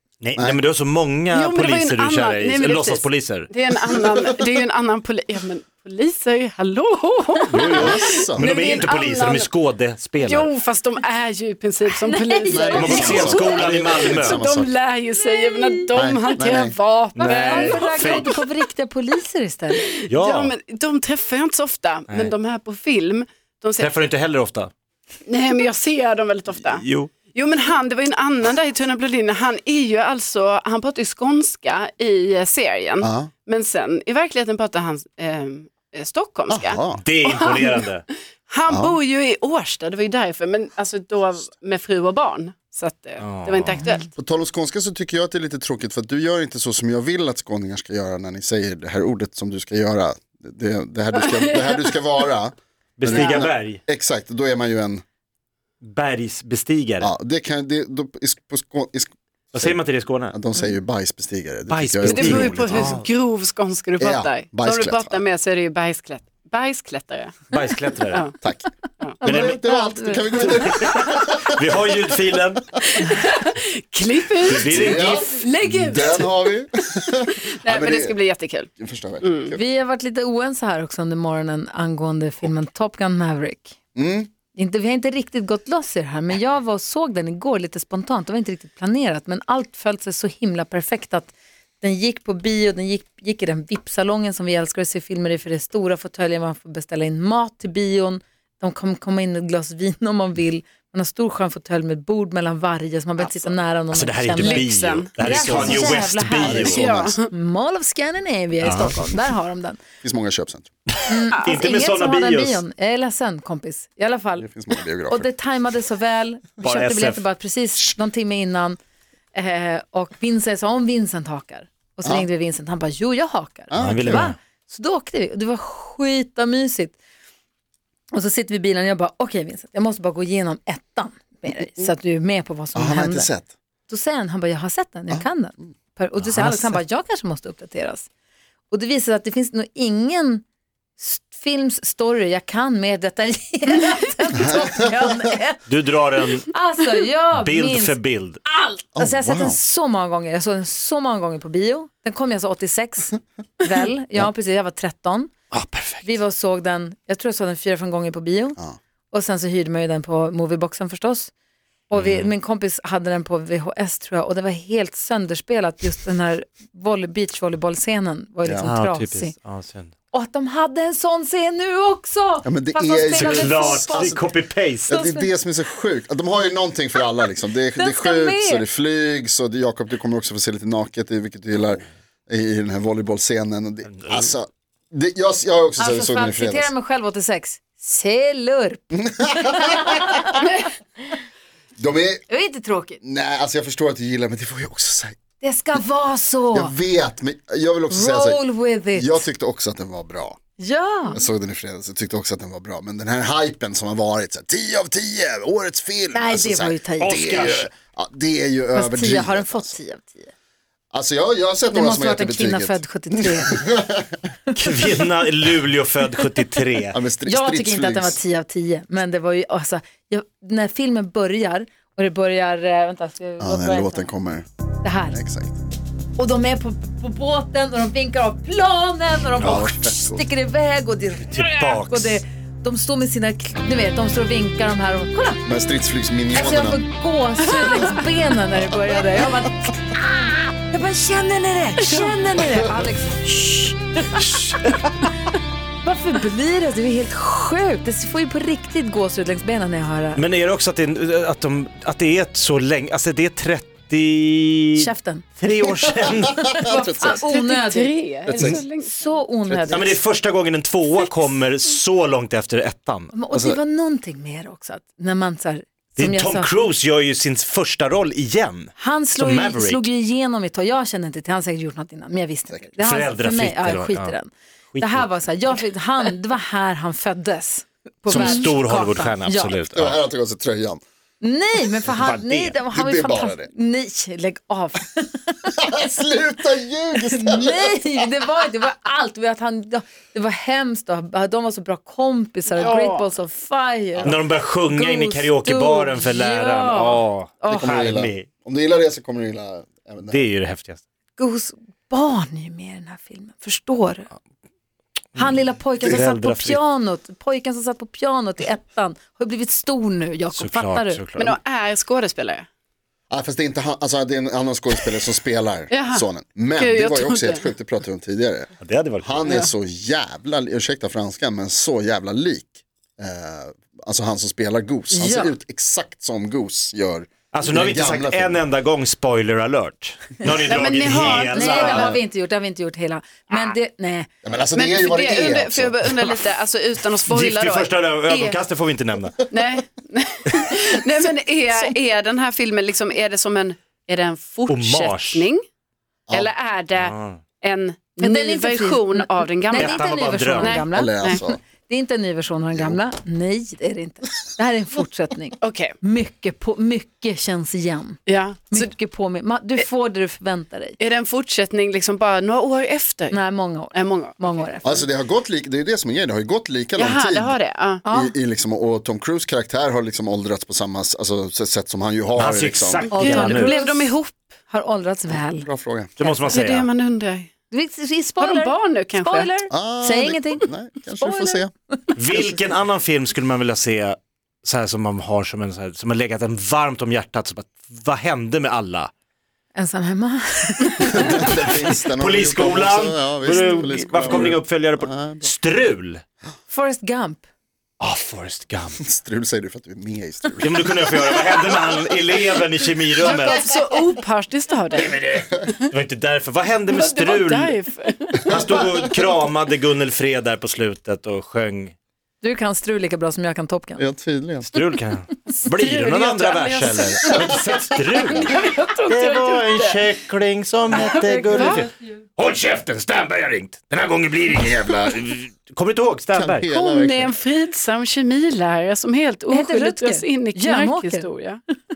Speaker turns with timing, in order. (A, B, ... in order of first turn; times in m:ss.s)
0:00.2-0:03.5 A
0:01.3-0:09.5 B
0:07.5-0:10.5 A
0:07.7-0:08.5 C
0:10.2-0:18.5 B
0:11.9-0:13.5 D
0:12.5-0:14.7 C
0:12.8-0:14.4 A
0:15.2-0:16.0 D
0:15.9-0:16.8 C
0:17.2-0:18.3 A
0:17.2-0:19.9 D
0:19.8-0:23.9 B
0:20.1-0:20.5 A
0:23.8-0:24.7 A
0:25.3-0:44.1 B
0:26.6-0:27.2 A
0:33.0-0:33.3 C
0:36.5-0:37.0 C
0:37.0-0:38.0 A
0:38.7-0:39.0 C
0:43.2-0:43.9 A
0:44.2-0:55.0 C
0:51.1-0:52.2 B
0:53.0-0:53.8 A
0:53.2-0:53.4 B
0:55.8-0:57.1 A
0:57.0-0:59.8 C
0:59.5-1:00.4 A
1:00.3-1:03.0 C
1:01.7-1:03.1 A
1:02.0-1:08.3 B
1:04.0-1:05.2 C
1:07.5-1:08.3 A
1:08.4-1:08.7 C
1:09.2-1:10.6 D
1:09.2-1:11.7 C
1:09.2-1:09.6 A
1:11.4-1:12.6 A
1:12.8-1:16.5 B
1:14.4-1:15.2 A
1:14.5-1:18.2 C
1:17.2-1:19.6 B
1:18.8-1:19.6 C
1:19.5-1:23.8 D
1:24.0-1:24.3 C
1:24.5-1:44.7 D
1:43.2-1:43.7 B
1:43.9-1:46.8 A
1:44.4-1:45.8 B
1:45.2-1:49.8 D
1:45.2-1:47.2 C
1:46.7-1:47.3 B
1:48.6-1:49.0 A
1:50.0-1:50.7 C
1:51.0-1:52.6 A
1:51.1-1:54.5 D
1:54.4-1:55.3 C
1:55.1-1:58.8 D
1:56.6-1:57.2 A
1:59.3-2:07.0 D
2:03.7-2:04.3 C
2:03.7-2:04.4 A
2:08.1-2:13.3 D
2:12.8-2:13.5 C
2:13.9-2:18.1 D
2:18.7-2:20.4 D
2:21.0-2:35.3 D
2:24.4-2:25.0 C
2:25.7-2:26.5 A
2:27.3-2:28.4 A
2:29.0-2:29.6 C
2:35.5-2:36.2 A
2:36.0-2:38.6 D
2:39.1-2:41.3 D
2:41.9-2:49.4 D
2:41.9-2:42.3 A
2:48.4-2:48.7 C
2:48.6-2:49.9 A
2:50.1-2:54.3 D
2:52.4-2:54.2 C
2:53.1-2:54.9 A
2:54.9-3:06.7 C
2:54.9-2:55.3 D
2:57.8-2:58.6 D
3:03.9-3:04.3 A
3:05.8-3:10.6 D
3:08.9-3:10.1 C
3:10.4-3:10.7 B
3:11.8-3:12.3 C
3:12.3-3:13.0 D
3:13.0-3:15.2 C
3:15.4-3:16.7 D
3:16.5-3:18.4 C
3:17.9-3:19.2 D
3:18.9-3:20.4 C
3:20.6-3:21.2 D
3:21.1-3:29.8 C
3:26.1-3:27.2 D
3:27.0-3:27.7 A
3:28.7-3:30.3 D
3:30.9-3:34.2 C
3:31.7-3:33.8 D
3:34.5-3:34.9 D
3:34.6-3:37.0 A
3:36.9-3:38.2 C
3:37.2-3:44.1 D
3:43.4-3:44.5 C
3:44.8-3:45.2 D
3:45.1-3:45.6 C
3:46.2-3:55.4 D
3:49.4-3:50.2 C
3:51.3-3:52.2 A
3:55.4-3:56.8 C
3:56.3-4:04.5 D
4:01.8-4:02.1 B
4:04.2-4:04.8 A
4:05.8-4:10.2 D
4:10.2-4:16.5 A
4:14.8-4:15.3 D
4:15.8-4:18.0 D
4:15.9-4:17.3 C
4:17.3-4:19.2 B
4:18.3-4:18.6 C
4:18.9-4:20.0 D
4:19.7-4:23.5 A
4:23.1-4:26.5 D
4:26.0-4:29.8 A
4:28.8-4:39.5 D
4:32.8-4:34.2 A
4:34.7-4:35.1 A
4:38.1-4:40.0 A
4:39.7-4:40.8 C
4:41.2-4:45.9 D
4:41.9-4:42.6 A
4:42.7-4:43.5 C
4:45.6-4:48.1 C
4:47.0-4:57.7 D
4:52.5-4:53.1 B
4:54.0-4:58.3 A
4:57.5-5:00.3 C
5:00.1-5:00.8 A
5:01.2-5:04.1 D
5:05.2-5:11.0 D
5:05.2-5:06.6 A
5:10.3-5:11.3 A
5:11.2-5:12.5 B
5:13.1-5:18.5 C
5:15.7-5:16.0 B
5:16.6-5:17.5 B
5:18.6-5:19.2 A
5:19.0-5:28.4 C
5:24.9-5:25.4 D
5:27.3-5:32.0 A
5:30.4-5:32.0 B
5:31.2-5:34.1 D
5:34.2-5:36.2 C
5:34.6-5:38.4 B
5:37.1-5:39.2 A
5:39.3-5:45.4 B
5:44.5-5:45.3 A
5:46.1-5:51.2 B
5:46.8-5:47.2 A
5:48.0-6:00.8 D
5:49.6-5:50.7 A
5:50.7-5:51.4 C
5:52.5-5:52.8 C
5:55.4-5:55.8 B
5:58.1-5:58.7 B
6:00.8-6:03.2 B
6:03.1-6:04.9 D
6:03.7-6:04.5 B
6:04.6-6:13.0 C
6:06.8-6:07.8 B
6:07.8-6:08.2 D
6:12.2-6:13.6 A
6:12.9-6:15.5 D
6:13.0-6:14.3 B
6:15.1-6:15.9 C
6:16.0-6:16.7 A
6:16.3-6:17.3 B
6:17.5-6:22.0 D
6:18.2-6:19.3 B
6:19.5-6:21.5 C
6:22.0-6:28.9 A
6:29.6-6:31.5 D
6:30.9-6:35.3 C
6:32.0-6:36.0 A
6:36.5-6:37.2 D
6:37.8-6:38.8 A
6:38.8-6:40.8 C
6:40.4-6:43.4 A
6:43.1-6:45.0 B
6:44.8-6:47.6 A
6:46.7-6:48.6 B
6:48.3-6:51.8 A
6:52.2-6:53.9 D
6:53.8-6:54.5 C
6:54.5-6:58.4 A
6:55.3-6:59.9 B
6:58.9-7:06.5 A
7:00.7-7:01.7 B
7:01.1-7:01.7 D
7:04.5-7:04.8 C
7:06.1-7:07.1 C
7:06.4-7:11.4 B
7:09.3-7:11.1 D